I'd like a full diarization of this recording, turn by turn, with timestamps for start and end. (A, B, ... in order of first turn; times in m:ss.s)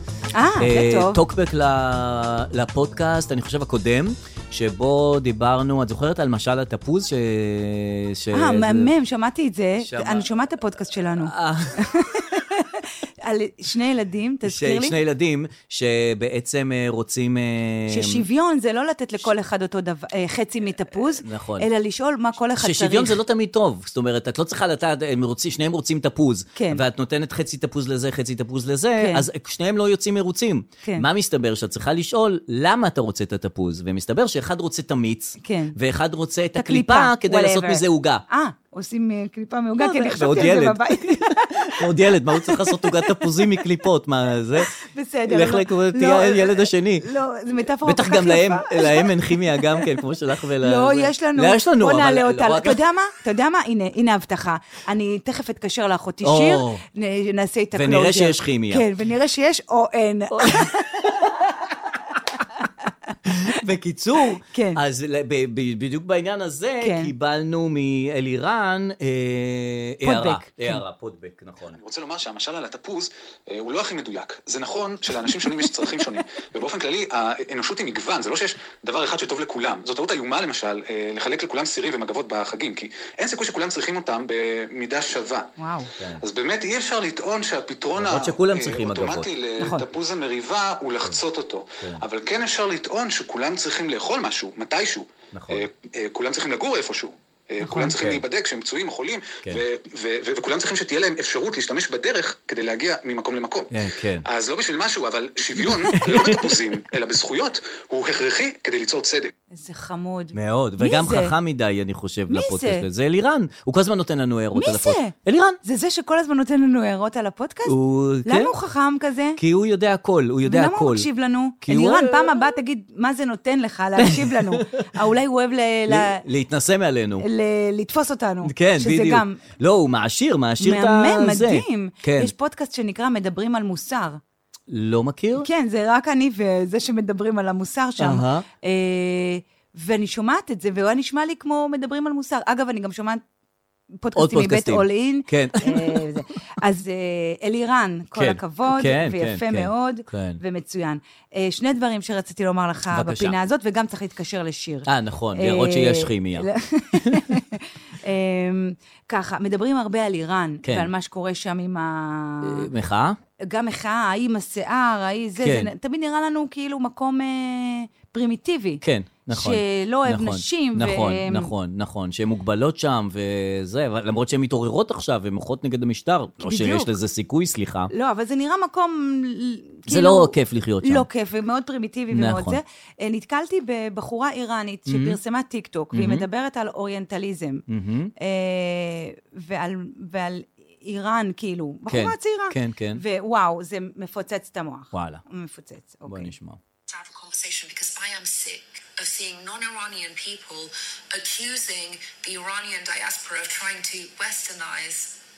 0:00.3-0:01.2 A
0:00.6-0:08.9 B
0:08.3-0:15.0 A
0:09.8-0:10.3 B
0:10.9-0:11.8 B
0:14.5-0:18.3 B
0:17.9-0:23.2 A
0:21.1-0:21.7 B
0:22.6-0:38.2 B
0:26.6-0:26.8 A
0:29.0-0:29.2 A
0:35.4-0:35.8 A
0:36.6-0:43.4 A
0:39.8-0:44.8 B
0:44.7-0:49.9 A
0:45.3-0:47.1 B
0:47.8-0:52.8 B
0:50.6-1:01.4 A
0:56.2-0:56.8 B
0:57.7-0:58.9 B
1:00.3-1:01.5 B
1:03.2-1:11.8 B
1:04.5-1:04.8 A
1:06.8-1:07.1 A
1:10.0-1:10.8 A
1:11.7-1:25.5 C
1:25.6-1:25.9 A
1:26.0-1:26.2 B
1:26.2-1:43.7 C
1:28.0-1:29.3 B
1:29.6-1:29.8 A
1:35.3-1:35.7 B
1:37.6-1:38.2 B
1:43.7-1:44.3 B
1:44.3-1:49.3 C
1:45.6-1:46.6 B
1:49.5-1:51.3 A
1:50.3-1:55.6 B
1:52.3-1:52.8 A
1:54.6-1:59.4 A
1:57.7-1:58.5 B
1:59.4-2:01.1 B
2:00.4-2:06.2 A
2:01.6-2:02.5 B
2:04.0-2:04.8 B
2:05.9-2:07.3 B
2:07.2-2:09.4 A
2:08.4-2:12.3 B
2:10.6-2:14.2 A
2:14.7-2:15.5 B
2:15.4-2:23.2 A
2:18.0-2:18.5 B
2:24.0-2:42.7 A
2:24.2-2:26.1 B
2:28.2-2:30.4 B
2:32.9-2:33.4 B
2:34.9-2:37.4 B
2:40.6-2:40.9 B
2:42.4-2:43.2 B
2:43.4-2:51.5 A
2:45.4-2:45.7 B
2:48.8-2:57.9 B
2:56.4-2:56.9 A
2:57.9-3:07.6 A
2:59.9-3:01.1 B
3:02.1-3:02.6 B
3:04.9-3:05.2 B
3:05.9-3:06.3 B
3:07.7-3:08.1 B
3:08.2-3:16.3 A
3:11.9-3:13.0 B
3:14.9-3:15.2 B
3:16.1-3:16.6 B
3:16.9-3:25.2 D